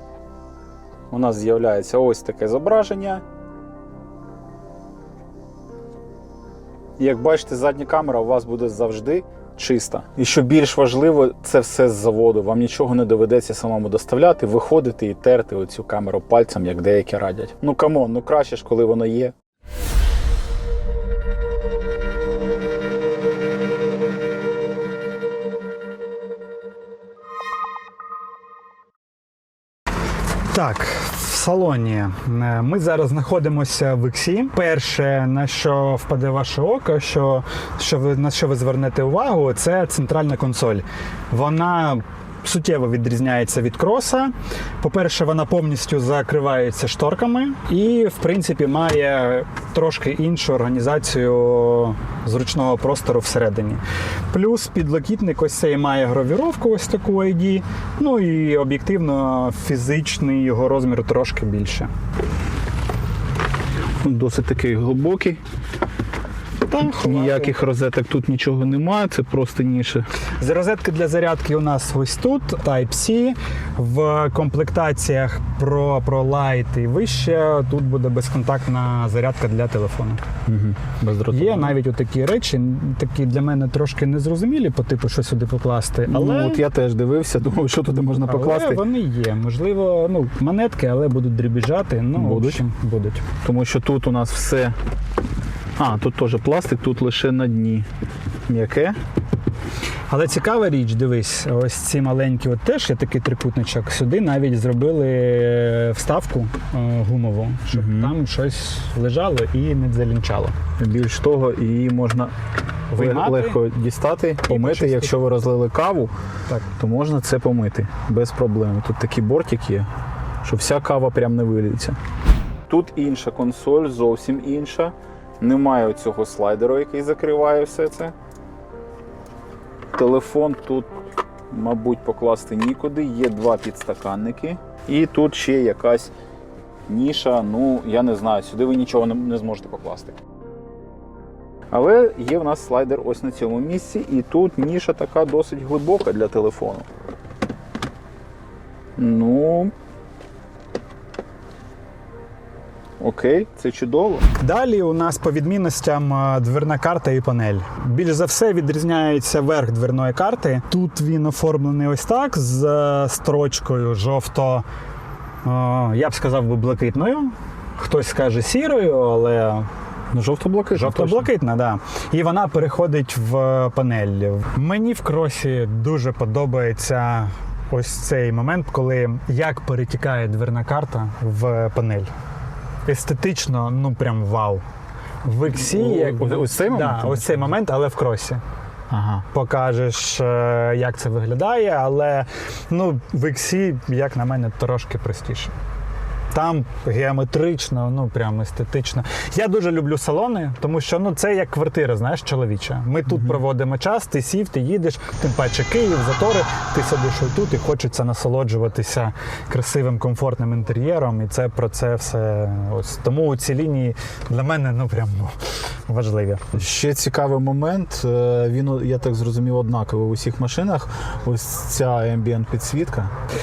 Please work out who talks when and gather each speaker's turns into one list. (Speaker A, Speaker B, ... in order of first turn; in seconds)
Speaker A: 1.1-3.2, 7.0-19.3, 64.0-65.4, 66.7-70.0, 80.5-81.7, 86.1-88.8, 92.1-92.6, 93.4-94.8, 95.8-97.9, 98.5-99.0, 107.7-108.1, 110.8-112.3, 112.9-116.1, 116.8-119.9, 120.4-122.0, 122.7-128.1, 129.9-130.9, 131.5-136.1, 136.9-140.2, 141.7-146.9, 149.0-149.7, 153.0-154.3, 170.1-171.3, 185.5-187.5, 188.9-189.2, 216.5-223.1
Speaker B: 30.5-61.9, 66.7-67.6, 70.4-80.2, 81.3-86.6, 88.2-93.2, 100.1-110.5, 112.9-113.6, 114.5-115.1, 154.4-164.7, 165.4-169.7, 170.7-182.1, 182.8-184.6, 185.2-188.4, 189.3-195.5, 196.3-215.3, 215.9-216.6